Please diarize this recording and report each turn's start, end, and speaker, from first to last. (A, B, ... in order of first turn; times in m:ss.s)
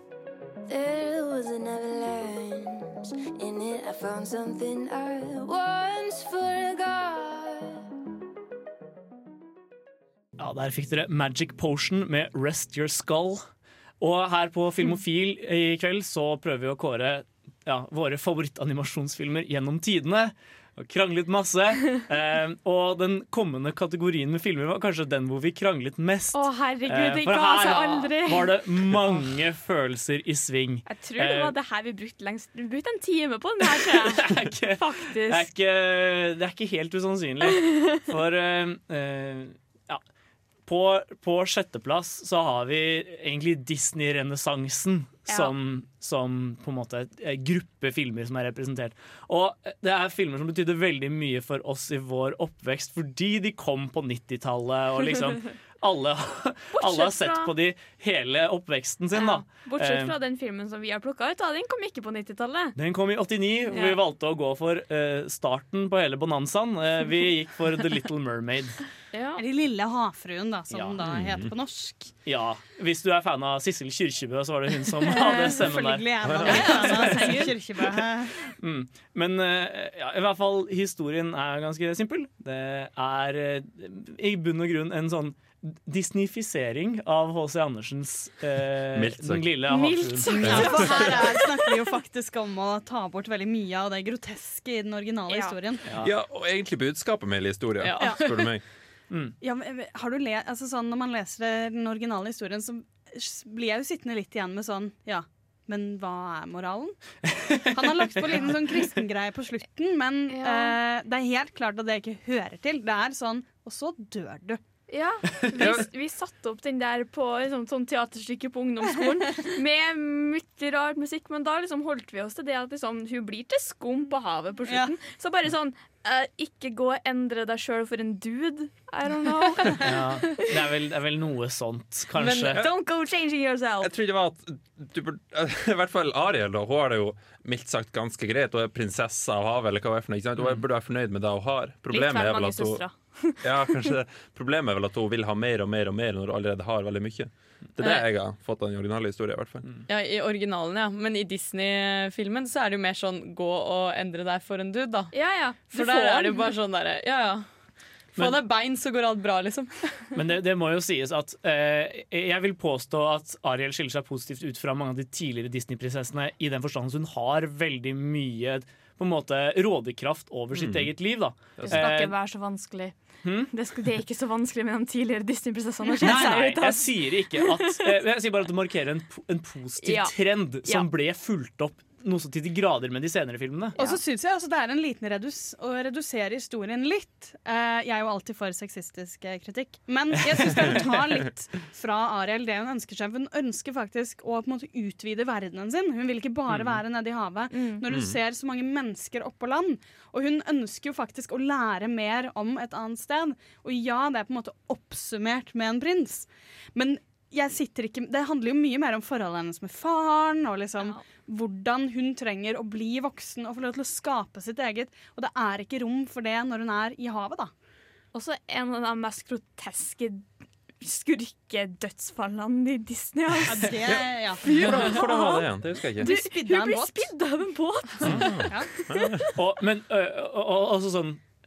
0:00.7-0:07.8 A
0:10.4-0:13.4 B
0:14.0-0:31.5 B
0:26.3-0:28.6 C
0:30.8-0:35.5 C
0:33.7-0:40.0 B
0:40.7-1:00.1 B
0:56.8-0:57.5 C
0:59.1-1:02.8 C
1:02.8-1:08.8 B
1:03.7-1:04.0 C
1:09.1-1:09.4 C
1:09.4-1:12.1 D
1:10.7-1:11.0 B
1:11.0-1:11.5 E
1:12.2-1:17.5 B
1:15.1-1:18.4 D
1:16.2-1:16.8 E
1:16.4-1:17.5 C
1:18.5-1:30.4 B
1:28.9-1:29.6 E
1:29.7-1:31.7 C
1:30.3-1:35.9 D
1:30.4-1:31.2 E
1:35.3-1:35.6 C
1:35.8-1:36.1 B
1:36.0-1:38.6 E
1:37.8-1:38.4 F
1:38.0-1:38.3 D
1:39.4-1:47.0 D
1:47.2-1:48.8 B
1:47.7-1:54.6 D
1:50.3-1:50.8 C
1:54.9-2:09.9 C
1:55.6-1:55.8 E
2:04.6-2:04.9 D
2:09.8-2:12.6 B
2:12.2-2:12.5 F
2:12.5-2:13.9 C
2:13.8-2:22.8 E
2:20.4-2:20.6 B
2:21.9-2:23.9 C
2:23.4-2:29.7 E
2:27.8-2:28.0 F
2:29.9-2:35.1 F
2:35.1-2:36.5 C
2:35.6-2:37.5 F
2:38.2-2:40.1 F
2:40.1-2:52.1 B
2:50.5-2:50.9 E
2:51.6-2:51.9 E
2:51.6-2:53.0 C
2:53.2-2:53.5 B
2:53.5-2:57.9 C
2:55.8-2:56.4 D
2:56.0-3:03.8 B
2:59.8-3:00.9 C
3:03.8-3:04.0 C
3:03.8-3:37.5 D
3:10.3-3:10.8 B
3:17.5-3:17.8 C
3:17.9-3:18.2 E
3:38.1-3:40.3 C
3:40.8-3:43.9 C
3:43.4-3:45.0 D
3:43.8-3:46.1 E
3:44.4-3:49.4 C
3:46.0-3:47.1 D
3:48.0-3:49.0 D
3:48.0-3:49.2 E
3:49.3-3:51.2 B